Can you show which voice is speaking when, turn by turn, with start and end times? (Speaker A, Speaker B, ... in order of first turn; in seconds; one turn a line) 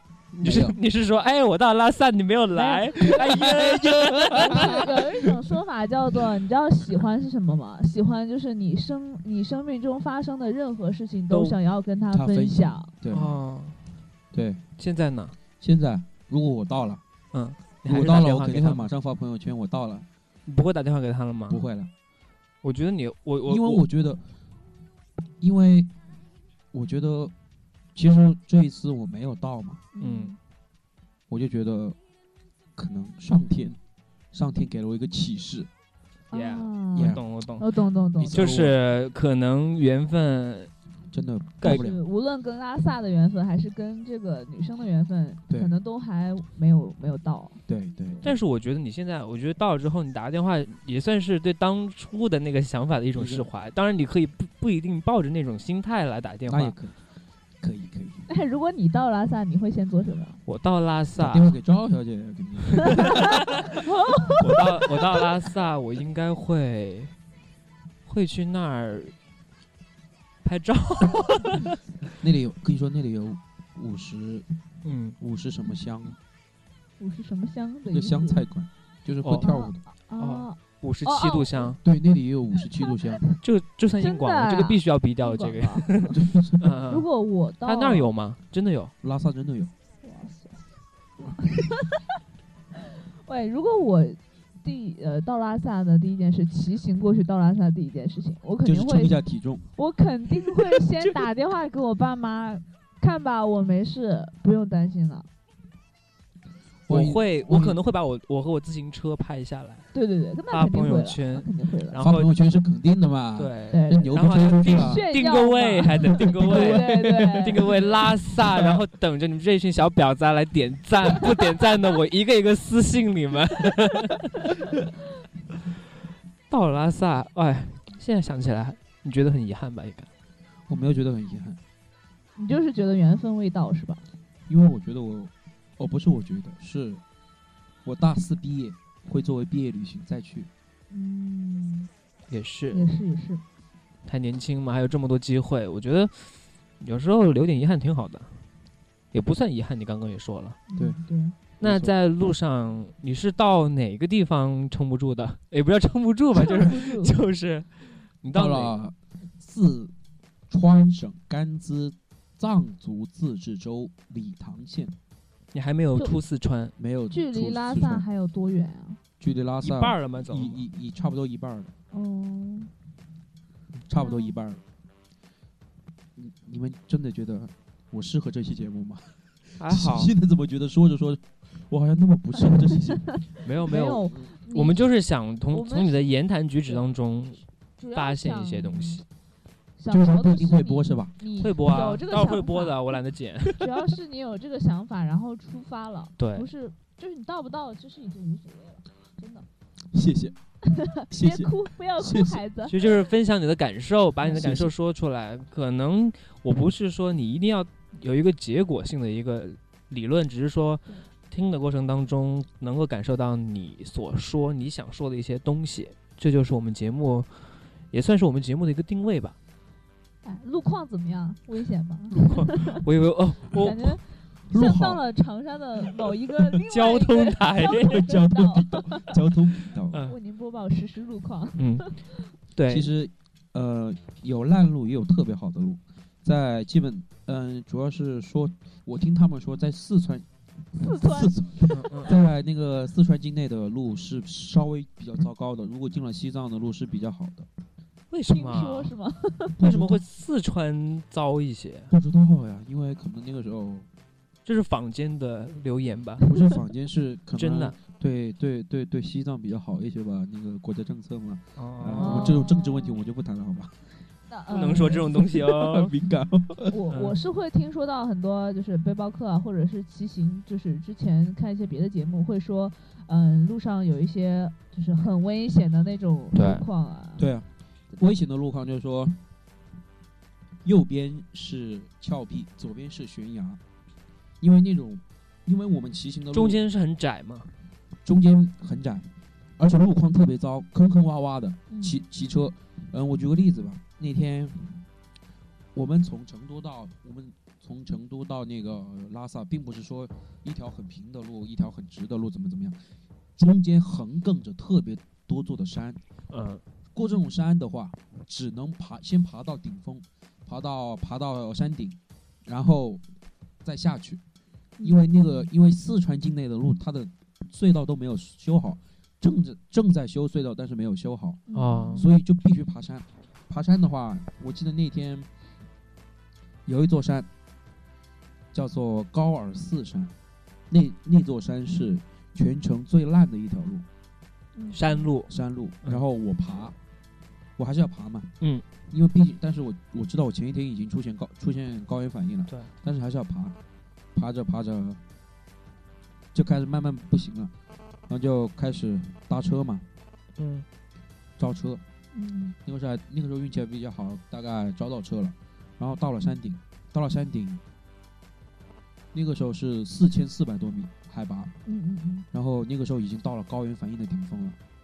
Speaker A: 0.3-4.8
Speaker B: 0.4-0.8
Speaker C: 2.5-3.2
Speaker B: 3.1-5.0
Speaker C: 4.3-12.9
Speaker A: 11.3-11.6
Speaker B: 12.1-13.3
Speaker A: 13.1-13.8
Speaker B: 14.3-14.6
Speaker A: 14.8-15.3
Speaker B: 15.6-17.0
Speaker A: 17.3-18.9
Speaker B: 17.9-20.1
Speaker A: 20.5-21.6
Speaker B: 21.5-21.9
Speaker A: 22.6-23.8
Speaker B: 23.4-24.2
Speaker B: 25.4-25.9
Speaker B: 26.7-27.3
Speaker B: 27.9-29.8
Speaker C: 29.9-30.4
Speaker A: 30.0-30.3
Speaker B: 31.3-32.0
Speaker B: 32.8-33.8
Speaker B: 34.3-35.7
Speaker C: 36.3-38.4
Speaker A: 36.3-37.6
Speaker B: 36.9-37.2
Speaker B: 38.2-38.8
Speaker A: 38.3-40.7
Speaker B: 41.1-42.0
Speaker C: 41.6-47.6
Speaker B: 47.7-48.4
Speaker A: 48.2-56.7
Speaker B: 53.1-53.5
Speaker B: 56.5-57.0
Speaker B: 57.6-58.2
Speaker C: 58.3-60.4
Speaker A: 60.5-61.5
Speaker B: 61.2-63.2
Speaker A: 62.9-63.2
Speaker C: 63.8-64.6
Speaker A: 64.4-67.1
Speaker A: 68.0-69.1
Speaker A: 70.4-71.7
Speaker B: 72.2-74.5
Speaker A: 74.8-75.2
Speaker B: 75.2-76.2
Speaker C: 77.0-78.5
Speaker B: 77.9-79.8
Speaker A: 79.2-79.5
Speaker C: 79.4-81.7
Speaker A: 80.2-81.8
Speaker B: 81.8-83.2
Speaker C: 82.8-83.4
Speaker A: 83.4-87.1
Speaker C: 84.0-86.1
Speaker B: 86.1-86.8
Speaker C: 86.9-88.1
Speaker A: 87.6-88.9
Speaker B: 89.0-89.7
Speaker C: 90.0-90.6
Speaker C: 91.2-92.0
Speaker C: 92.9-99.1
Speaker B: 98.6-99.6
Speaker C: 99.8-105.3
Speaker B: 106.9-107.8
Speaker A: 106.9-109.9
Speaker C: 109.9-112.0
Speaker A: 110.5-112.3
Speaker B: 112.0-115.0
Speaker A: 113.4-124.5
Speaker C: 113.7-114.1
Speaker C: 114.6-117.6
Speaker B: 116.4-116.8
Speaker B: 118.5-118.8
Speaker A: 126.5-130.1
Speaker B: 130.7-131.6
Speaker C: 132.3-134.0
Speaker B: 134.5-137.0
Speaker B: 137.8-140.5
Speaker C: 140.9-141.9
Speaker A: 142.3-142.8
Speaker C: 142.7-143.4
Speaker A: 144.1-148.3
Speaker A: 149.1-150.6
Speaker C: 150.7-151.3
Speaker B: 151.6-151.9
Speaker A: 151.6-158.7
Speaker C: 156.4-157.1
Speaker B: 158.3-159.9
Speaker B: 160.5-164.9
Speaker A: 165.5-166.7
Speaker B: 166.8-168.0
Speaker C: 167.1-169.0
Speaker B: 169.2-171.7
Speaker A: 169.6-170.6
Speaker C: 171.9-172.7
Speaker B: 173.9-174.6
Speaker C: 174.0-174.3
Speaker B: 176.2-183.0
Speaker A: 179.6-180.1
Speaker A: 183.4-187.4
Speaker C: 183.6-184.8
Speaker C: 185.5-186.1
Speaker C: 187.8-189.0
Speaker A: 187.9-189.0
Speaker C: 189.8-193.0
Speaker B: 189.9-191.1
Speaker A: 191.4-193.8
Speaker C: 193.6-199.4
Speaker A: 196.2-196.5
Speaker B: 199.9-200.3
Speaker C: 200.7-202.8
Speaker B: 201.1-202.4
Speaker A: 202.7-219.4
Speaker B: 204.3-204.7
Speaker C: 220.2-222.8
Speaker A: 222.1-224.0
Speaker C: 223.5-229.1
Speaker B: 224.5-225.0
Speaker A: 226.7-228.0
Speaker B: 227.6-230.0
Speaker C: 230.0-232.3
Speaker A: 231.6-231.9
Speaker A: 232.5-232.9
Speaker B: 232.7-240.2
Speaker C: 240.7-241.3
Speaker B: 240.9-247.5
Speaker A: 241.7-242.1
Speaker A: 248.1-248.9
Speaker C: 248.3-249.6
Speaker B: 249.6-250.0
Speaker A: 249.6-251.9
Speaker B: 251.9-253.9
Speaker A: 254.4-256.2
Speaker B: 256.2-263.8
Speaker A: 257.4-257.8
Speaker A: 261.6-262.4
Speaker C: 261.9-263.0
Speaker C: 264.3-265.1
Speaker A: 264.5-265.9
Speaker B: 265.0-266.7
Speaker C: 266.7-277.2
Speaker A: 266.9-267.2
Speaker A: 276.3-276.6
Speaker B: 277.2-279.2
Speaker B: 280.6-283.6
Speaker B: 284.4-286.6
Speaker A: 286.3-287.5
Speaker B: 288.0-294.8
Speaker C: 291.7-291.9
Speaker B: 295.7-302.8
Speaker B: 303.4-306.0
Speaker A: 306.3-306.6
Speaker B: 306.9-313.0
Speaker B: 313.6-314.2
Speaker B: 314.8-321.4
Speaker C: 321.5-322.1
Speaker A: 321.5-322.0
Speaker B: 321.9-325.3
Speaker B: 326.6-327.3
Speaker B: 328.5-330.1
Speaker B: 330.7-333.8
Speaker C: 334.6-335.0
Speaker A: 334.7-335.3
Speaker B: 335.3-336.8
Speaker B: 337.6-338.3
Speaker B: 338.9-343.6
Speaker B: 344.1-345.0
Speaker B: 346.3-347.5
Speaker B: 348.1-349.8
Speaker A: 350.4-350.6
Speaker B: 351.4-351.8
Speaker C: 352.1-352.5
Speaker B: 352.6-357.6
Speaker B: 359.1-361.5
Speaker C: 361.6-362.2
Speaker B: 362.3-364.6